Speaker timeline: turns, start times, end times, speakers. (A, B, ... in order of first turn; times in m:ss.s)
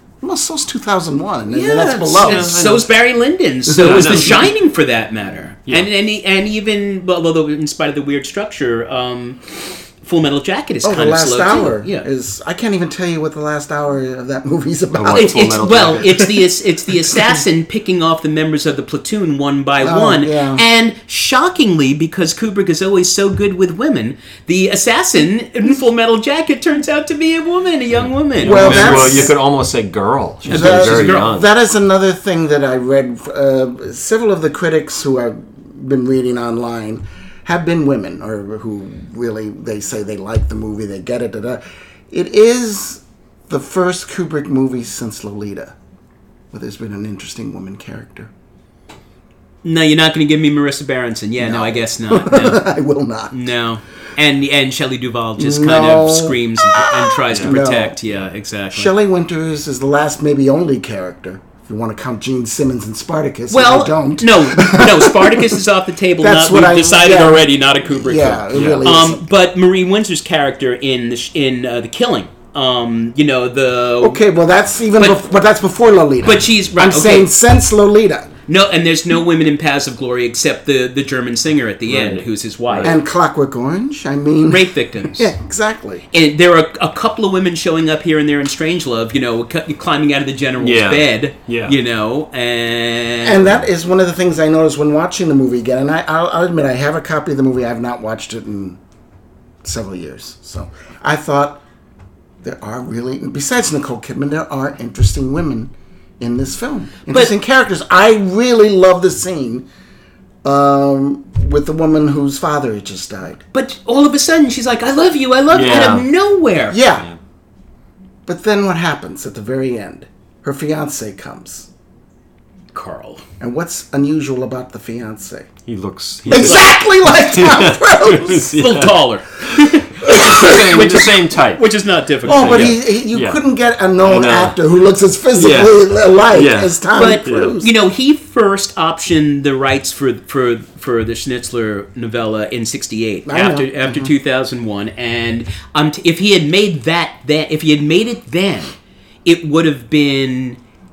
0:00.2-0:02.5 A
0:01.5-0:12.1 B
0:02.2-0:02.9 C
0:03.7-0:04.4 A
0:03.8-0:04.5 C
0:10.8-0:16.2 A
0:14.9-0:16.3 C
0:15.1-0:29.3 B
0:19.8-0:20.7 A
0:28.0-0:31.5 C
0:28.4-0:29.3 A
0:30.5-0:45.8 A
0:30.5-0:31.3 B
0:46.5-0:48.3 A
0:49.6-0:52.7 B
0:51.4-0:53.4 A
0:53.3-0:58.9 B
0:55.4-0:58.0 A
0:58.7-1:05.6 A
1:03.5-1:14.2 B
1:06.2-1:09.2 A
1:08.5-1:08.9 C
1:14.0-1:18.3 A
1:16.2-1:17.3 B
1:18.5-1:23.0 B
1:21.9-1:23.0 C
1:22.8-1:26.1 A
1:24.5-1:25.3 B
1:26.1-1:33.5 B
1:30.6-1:31.8 C
1:33.2-1:38.8 A
1:39.6-1:41.6 A
1:42.4-1:49.7 A
1:50.4-1:53.4 A
1:53.5-1:56.8 B
1:55.5-1:56.1 C
1:56.7-1:57.1 A
1:58.3-2:01.7 A
2:02.7-2:03.2 B
2:03.4-2:05.5 A
2:05.7-2:11.6 C
2:06.3-2:08.4 A
2:06.4-2:06.8 B
2:08.2-2:12.8 B
2:10.0-2:10.6 A
2:12.2-2:13.4 C
2:12.3-2:17.7 A
2:14.0-2:14.6 C
2:15.4-2:17.6 C
2:16.9-2:30.6 B
2:23.3-2:24.1 A